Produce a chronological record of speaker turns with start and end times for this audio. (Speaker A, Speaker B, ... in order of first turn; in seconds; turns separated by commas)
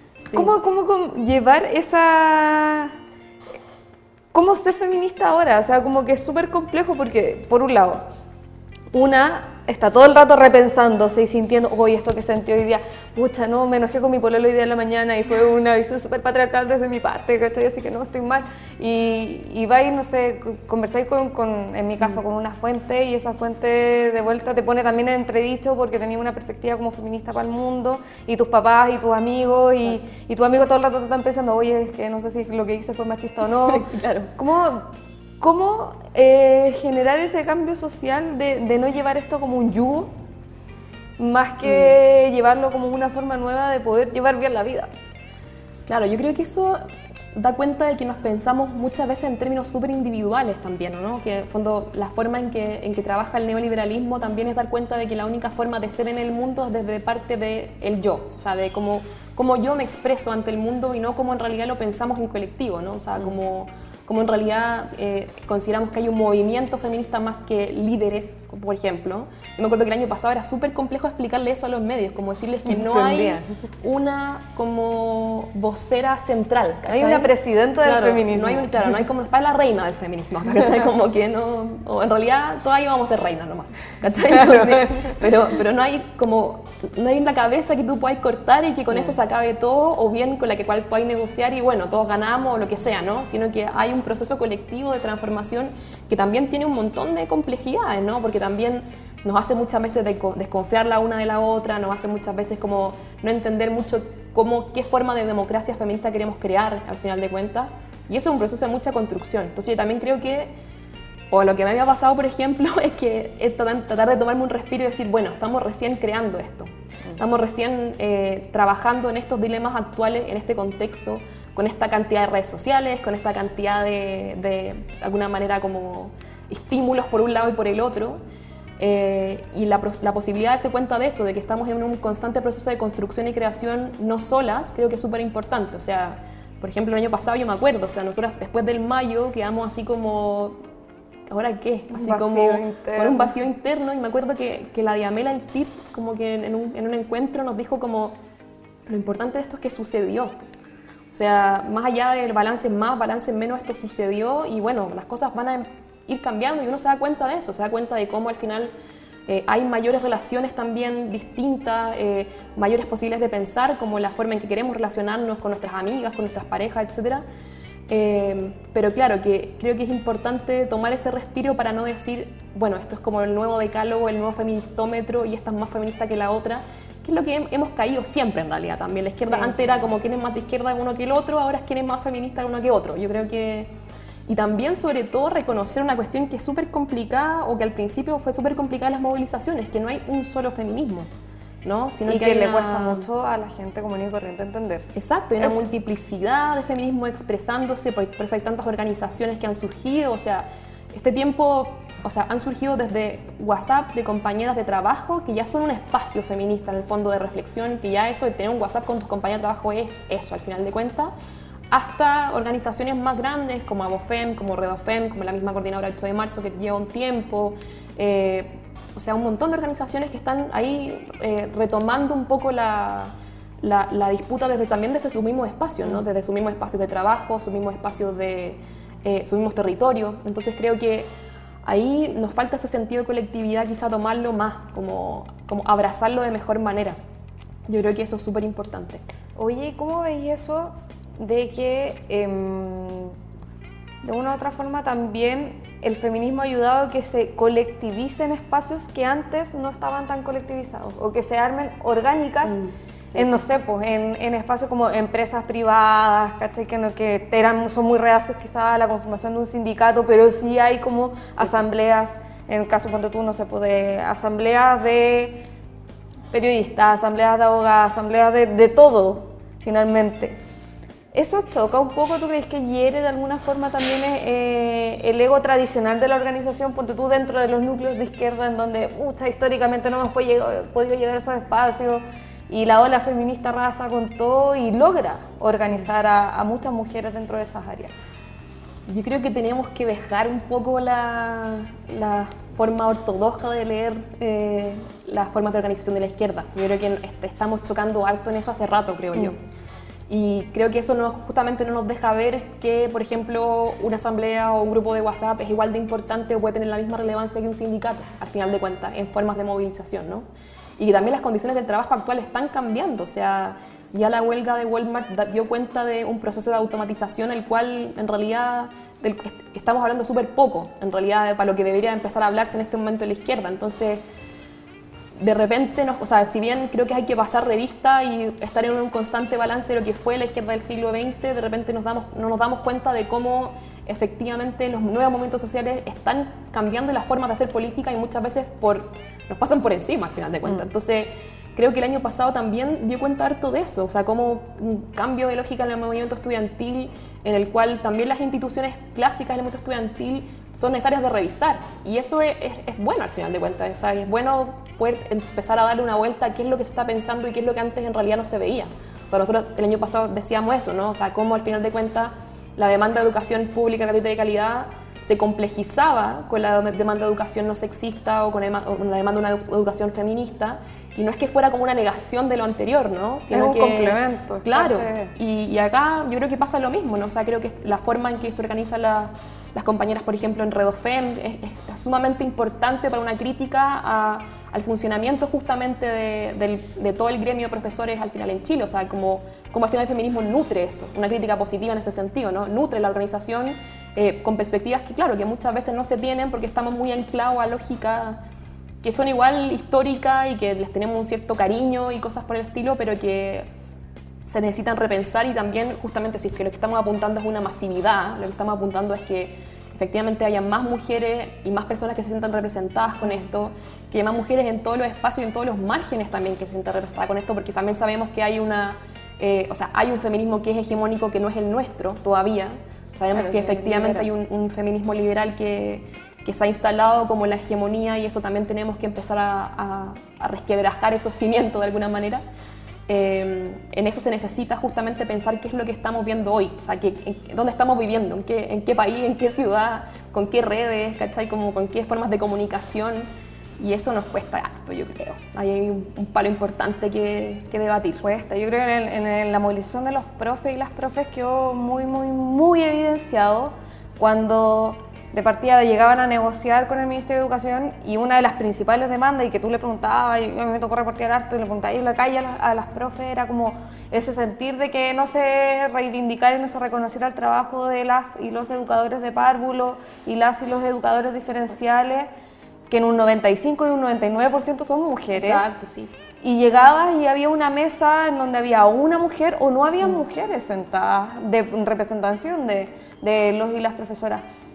Speaker A: 0.2-0.5, Speaker B: 0.3-3.0, Speaker B: 4.3-8.0, Speaker B: 8.9-40.1, Speaker A: 33.7-34.3, Speaker B: 41.2-44.9, Speaker A: 41.7-41.9, Speaker A: 45.9-46.8, Speaker A: 47.3-110.5, Speaker B: 72.7-73.5, Speaker B: 76.9-78.7, Speaker B: 84.5-85.1, Speaker A: 111.3-128.2, Speaker A: 128.8-140.6, Speaker A: 141.3-148.2, Speaker B: 141.9-143.4, Speaker A: 148.9-150.3, Speaker A: 151.1-158.7, Speaker A: 159.3-167.2, Speaker A: 167.9-183.7, Speaker B: 179.2-179.8, Speaker A: 184.3-191.1, Speaker A: 191.6-193.1, Speaker B: 192.1-194.9, Speaker A: 194.9-211.1, Speaker A: 211.7-231.1, Speaker A: 231.6-237.0, Speaker A: 237.7-239.0, Speaker B: 239.4-243.2, Speaker B: 244.0-252.6, Speaker A: 252.5-253.4, Speaker B: 253.2-265.4, Speaker B: 266.3-270.4, Speaker B: 271.1-287.9, Speaker A: 288.9-299.4, Speaker A: 300.1-310.3, Speaker A: 310.8-324.0, Speaker A: 325.2-398.2, Speaker B: 373.3-375.1, Speaker A: 398.8-403.5, Speaker A: 404.3-432.2, Speaker B: 423.1-424.1, Speaker A: 432.9-448.0, Speaker B: 448.0-472.1, Speaker B: 472.7-475.5, Speaker A: 475.1-475.9, Speaker B: 476.2-484.2